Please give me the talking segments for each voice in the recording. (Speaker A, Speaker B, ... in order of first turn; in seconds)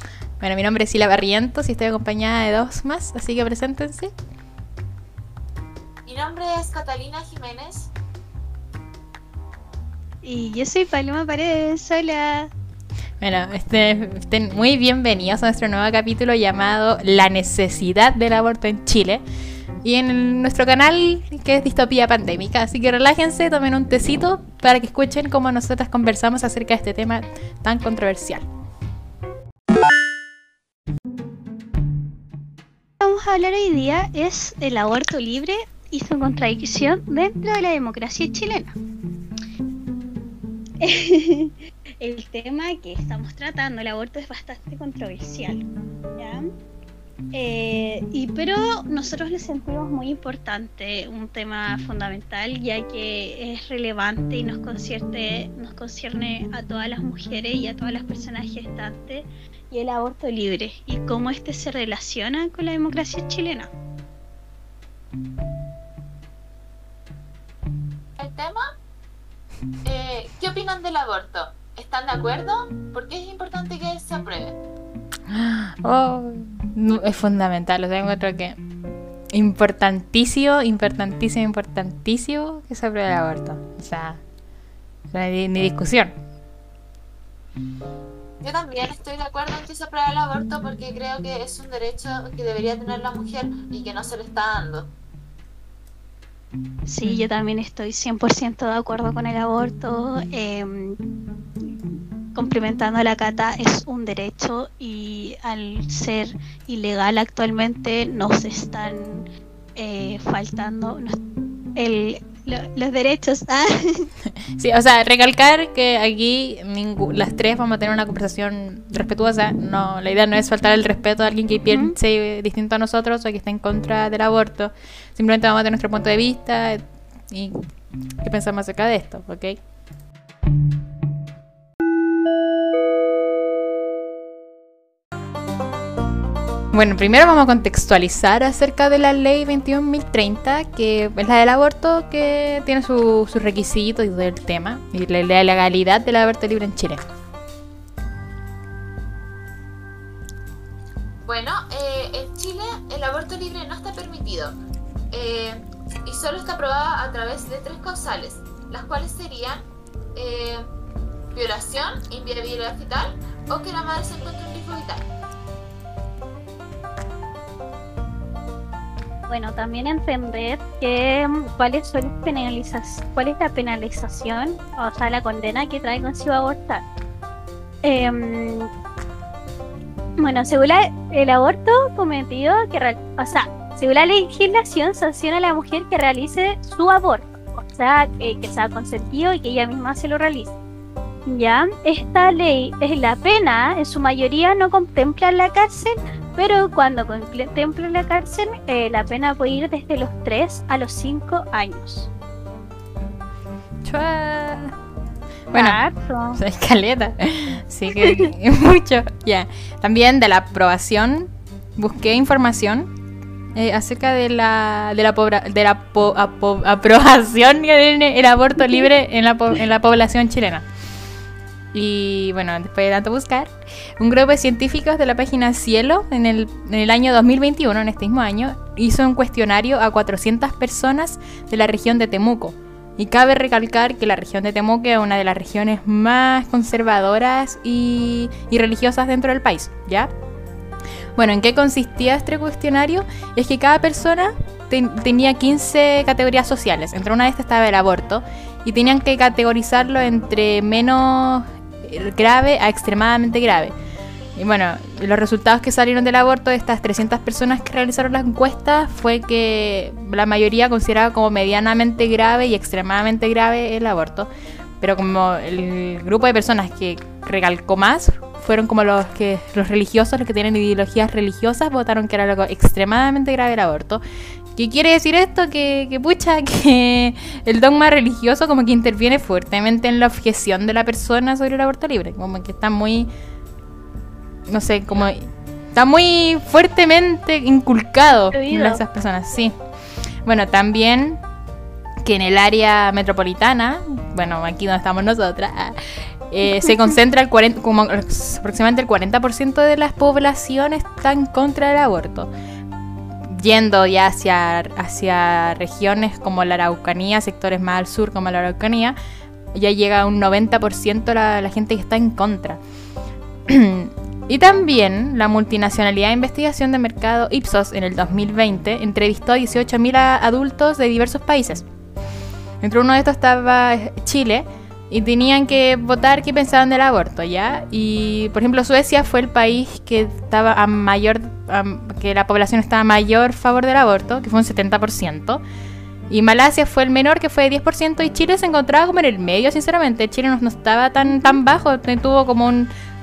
Speaker A: 0.4-4.1, 13.2-19.2, 19.8-28.5, 75.3-78.6, 79.3-84.2, 85.1-86.2, 97.0-97.3, 114.4-127.6, 128.2-129.6, 136.7-147.0, 203.8-204.8, 205.5-205.8, 206.3-212.9, 213.5-220.6, 221.7-240.1, 241.2-253.7, 254.3-264.3, 264.8-274.0, 274.6-283.1, 284.5-289.5, 290.2-291.2, 292.0-302.3, 303.2-308.9, 309.5-312.6, 313.5-321.6, 322.6-335.4, 336.1-342.7
Speaker B: 6.0-7.9, 68.2-68.7, 69.8-74.6, 88.4-94.9, 151.2-154.6, 155.1-160.7, 161.3-165.0
Speaker C: 10.2-12.5, 33.0-38.8, 40.8-46.5, 47.3-63.7, 96.8-101.0, 102.3-111.2, 111.8-114.1, 121.7-121.9, 169.3-176.8, 177.8-178.7, 180.2-190.5, 191.3-202.1, 205.5-206.4, 207.9-208.3, 288.1-288.8, 341.0-341.4